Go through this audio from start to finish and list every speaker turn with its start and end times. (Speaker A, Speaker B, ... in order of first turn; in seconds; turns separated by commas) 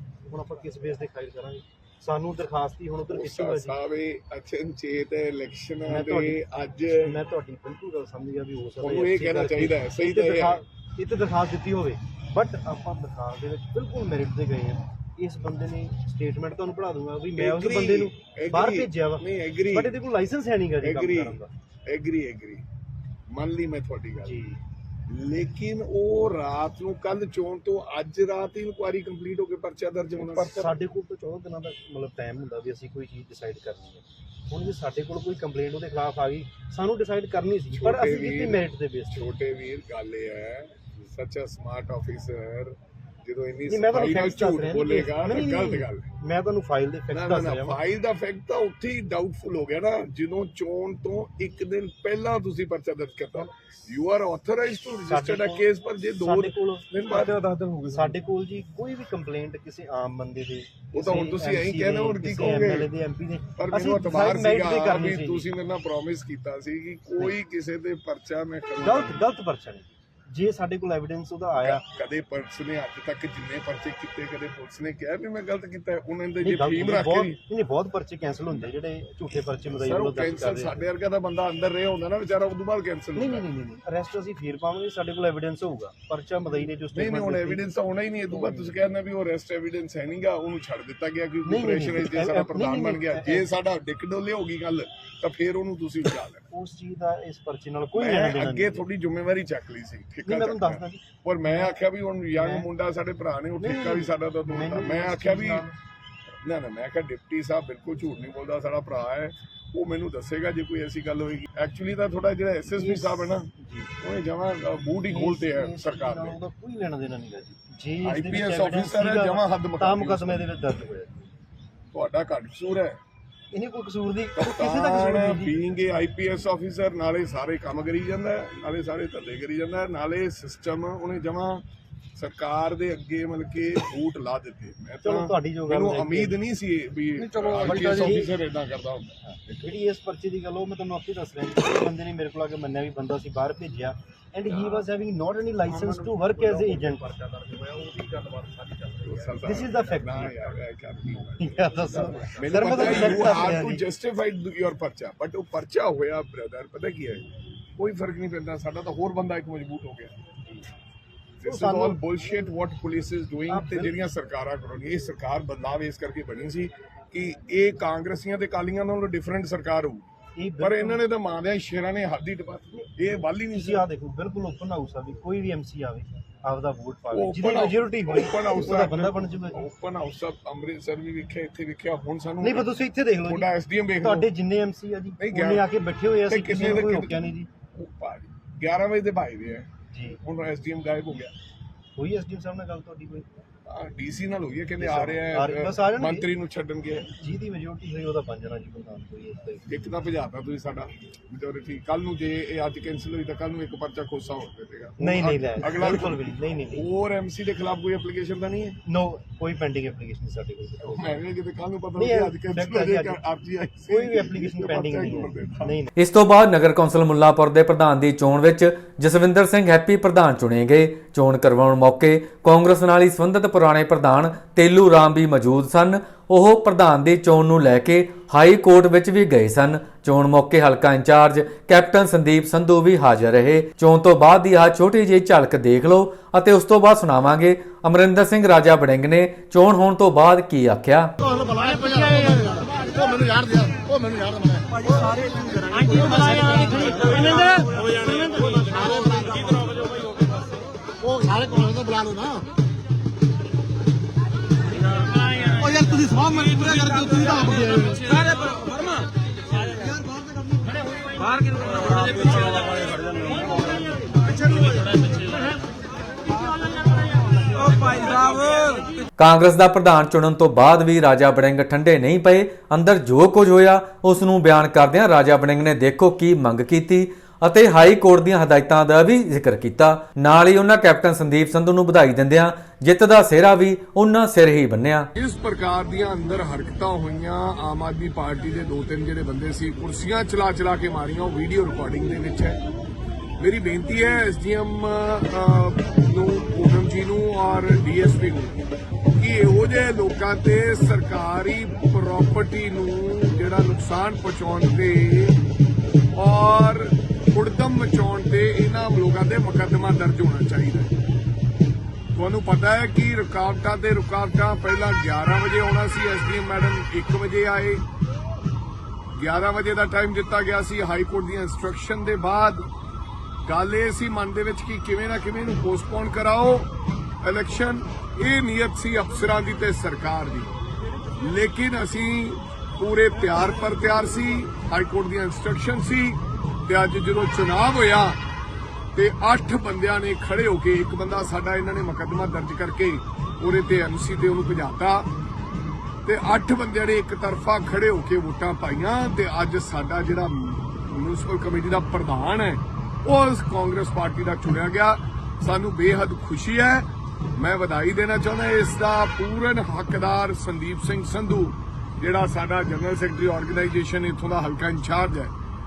Speaker A: 0.3-3.8, Speaker B: 3.0-7.1, Speaker A: 5.8-6.4, Speaker A: 6.9-21.5, Speaker B: 8.8-10.6, Speaker B: 17.4-19.9, Speaker B: 20.8-22.6, Speaker B: 23.3-24.4, Speaker A: 24.2-24.6, Speaker B: 25.1-30.8, Speaker A: 30.2-39.2, Speaker B: 37.7-46.1, Speaker A: 43.7-47.8, Speaker B: 47.1-58.2, Speaker A: 55.1-65.5, Speaker B: 60.9-62.9, Speaker B: 63.6-69.2, Speaker A: 68.8-71.8, Speaker B: 71.6-77.4, Speaker A: 76.4-80.8, Speaker B: 79.7-83.4, Speaker A: 83.2-87.8, Speaker B: 86.9-96.5, Speaker A: 88.3-88.8, Speaker A: 91.5-93.5, Speaker A: 96.5-98.8, Speaker B: 98.0-105.7, Speaker A: 100.2-101.7, Speaker A: 102.3-102.7, Speaker A: 103.6-105.8, Speaker B: 106.4-116.4, Speaker A: 112.7-113.9, Speaker A: 115.1-121.3, Speaker B: 118.0-120.5, Speaker B: 121.9-123.0, Speaker A: 123.5-125.6, Speaker B: 124.4-131.6, Speaker B: 132.2-139.6, Speaker A: 135.0-136.4, Speaker C: 137.4-138.2, Speaker A: 137.6-138.3, Speaker A: 139.6-147.2, Speaker C: 145.7-149.0, Speaker B: 149.0-157.2, Speaker A: 149.4-150.6, Speaker A: 151.3-153.8, Speaker C: 151.9-153.6, Speaker B: 157.8-160.1, Speaker B: 161.4-170.1, Speaker A: 161.4-162.0, Speaker A: 163.5-163.9, Speaker A: 170.4-171.0, Speaker B: 170.6-173.9, Speaker A: 173.5-179.6, Speaker B: 177.1-184.3, Speaker A: 182.4-183.5, Speaker A: 184.0-187.5, Speaker B: 185.2-185.6, Speaker B: 186.3-189.7, Speaker A: 189.9-190.2, Speaker B: 190.2-191.3, Speaker A: 191.9-193.3, Speaker B: 193.7-197.1, Speaker A: 194.8-196.3, Speaker A: 197.2-199.7, Speaker B: 199.7-208.8, Speaker A: 205.0-206.9, Speaker A: 208.9-211.2, Speaker B: 210.8-215.8, Speaker A: 212.0-213.2, Speaker A: 213.9-215.9, Speaker D: 216.0-241.1, Speaker A: 241.8-242.3, Speaker A: 245.9-247.7, Speaker C: 256.9-258.0, Speaker D: 269.2-285.1, Speaker B: 285.1-292.6, Speaker B: 293.4-305.4, Speaker B: 306.1-310.9, Speaker B: 312.1-317.8, Speaker B: 319.1-322.6, Speaker B: 323.4-326.7, Speaker B: 327.2-330.5, Speaker B: 331.2-338.2, Speaker B: 338.9-345.1, Speaker B: 346.1-365.3